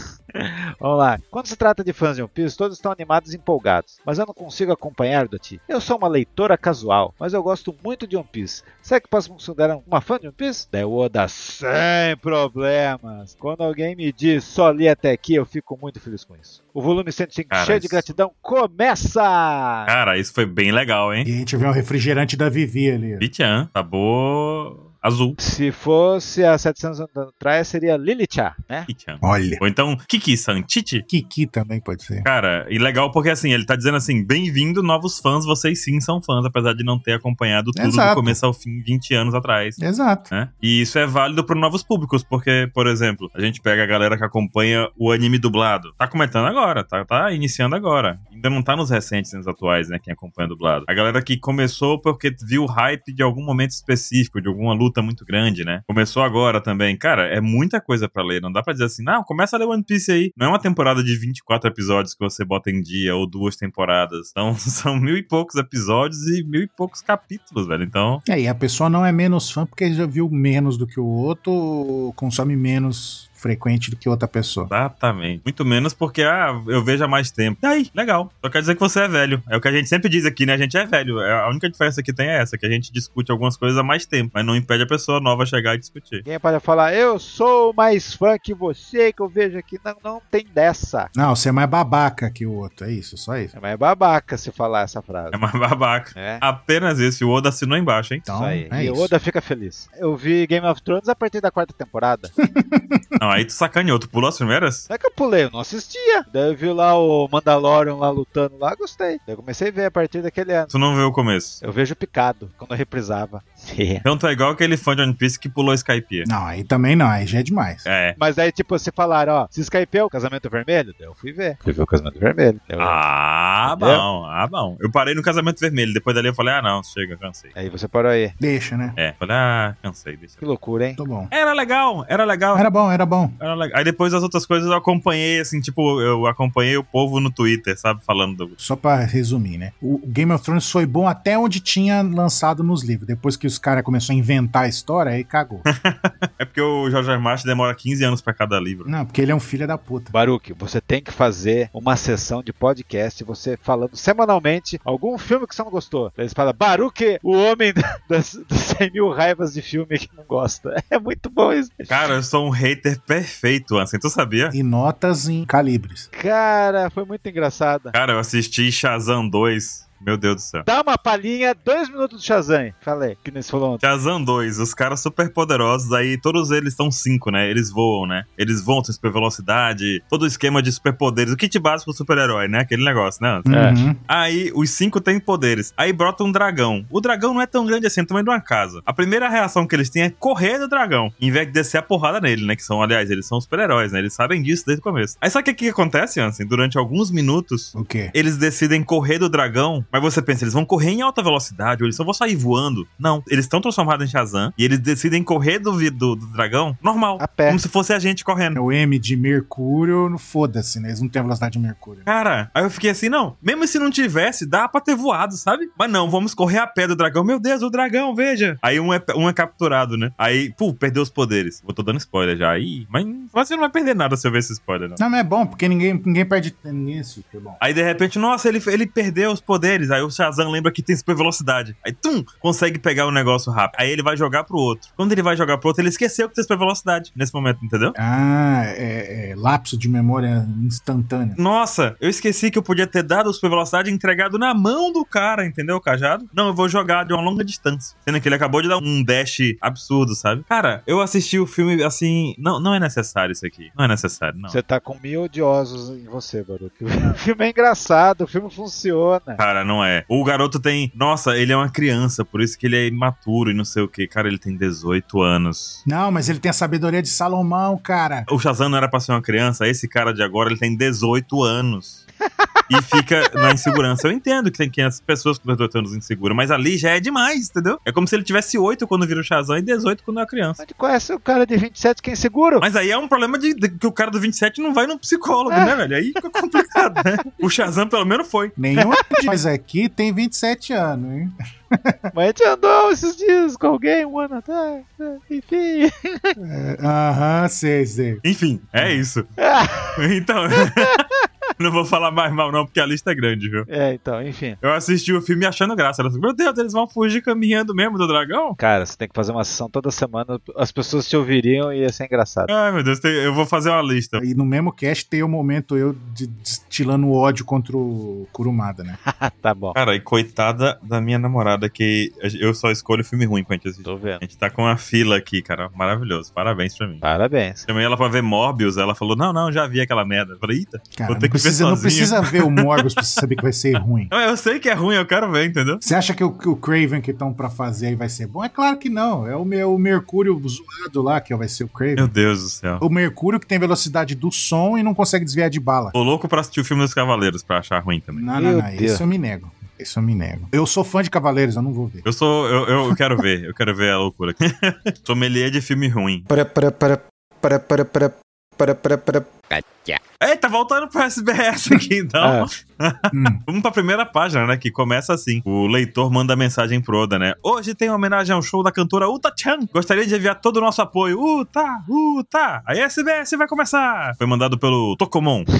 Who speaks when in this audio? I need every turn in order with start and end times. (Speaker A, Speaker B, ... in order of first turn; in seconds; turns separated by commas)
Speaker A: 0.3-19.9, Speaker B: 17.5-18.1, Speaker B: 19.9-21.3, Speaker C: 21.2-23.3, Speaker B: 23.2-25.4, Speaker A: 25.4-28.9, Speaker B: 28.9-31.1, Speaker C: 29.2-29.6, Speaker C: 31.1-32.3, Speaker B: 32.2-39.8, Speaker C: 37.8-38.4, Speaker C: 39.8-40.3, Speaker B: 40.3-68.2, Speaker C: 68.2-74.7, Speaker B: 74.7-86.2, Speaker A: 86.2-91.1, Speaker C: 91.1-93.5, Speaker A: 93.5-95.4, Speaker B: 95.3-98.2, Speaker A: 96.1-96.4, Speaker C: 98.2-99.1, Speaker A: 98.3-102.3, Speaker C: 102.4-103.2, Speaker B: 103.2-104.9, Speaker A: 104.9-110.7, Speaker B: 110.7-111.6, Speaker A: 111.6-114.0, Speaker B: 114.0-116.3, Speaker C: 116.2-117.8, Speaker B: 117.8-118.2, Speaker A: 118.2-123.0, Speaker B: 122.8-127.5, Speaker A: 123.6-124.0, Speaker A: 127.5-128.3, Speaker C: 128.4-129.0, Speaker B: 129.0-130.4, Speaker A: 130.4-131.0, Speaker C: 131.0-131.3, Speaker B: 131.3-132.7, Speaker C: 132.5-133.3, Speaker B: 133.4-138.5, Speaker C: 138.6-145.7, Speaker B: 145.7-148.9, Speaker C: 148.8-150.1, Speaker A: 150.1-162.1, Speaker B: 161.9-164.5, Speaker C: 164.5-166.1, Speaker A: 166.1-167.9, Speaker B: 167.9-170.7, Speaker A: 170.6-173.8, Speaker B: 173.8-208.6, Speaker C: 183.4-184.0, Speaker A: 183.5-183.8, Speaker C: 197.7-198.1, Speaker A: 207.2-207.6, Speaker C: 208.5-212.1, Speaker B: 212.1-225.0, Speaker C: 225.0-227.6, Speaker B: 227.6-237.9, Speaker C: 237.9-241.4, Speaker B: 241.4-254.6, Speaker A: 254.5-259.4, Speaker B: 259.4-265.8, Speaker C: 265.9-268.3, Speaker B: 268.3-272.0, Speaker A: 272.4-272.8, Speaker B: 272.7-280.6, Speaker A: 280.6-282.6, Speaker B: 282.6-288.5, Speaker C: 288.6-292.1, Speaker A: 288.8-289.2, Speaker A: 292.1-296.3, Speaker C: 296.4-298.2, Speaker B: 298.2-299.3, Speaker A: 299.4-300.0, Speaker B: 300.0-301.0, Speaker A: 300.6-301.0, Speaker B: 301.6-303.7, Speaker A: 303.7-304.6, Speaker B: 304.6-308.6, Speaker A: 308.6-312.5, Speaker B: 312.5-314.2, Speaker C: 314.2-319.0, Speaker A: 319.1-319.8, Speaker B: 319.7-327.0, Speaker A: 323.8-324.2, Speaker A: 327.0-327.6, Speaker B: 327.6-333.2, Speaker C: 330.9-334.1, Speaker B: 334.1-335.8, Speaker C: 335.8-342.1, Speaker B: 341.9-342.8, Speaker C: 342.8-345.9, Speaker B: 345.9-348.2, Speaker C: 348.1-352.1, Speaker A: 348.4-349.0, Speaker B: 352.0-356.3, Speaker D: 356.3-360.0, Speaker B: 360.2-375.5, Speaker A: 362.2-362.5, Speaker C: 363.1-363.4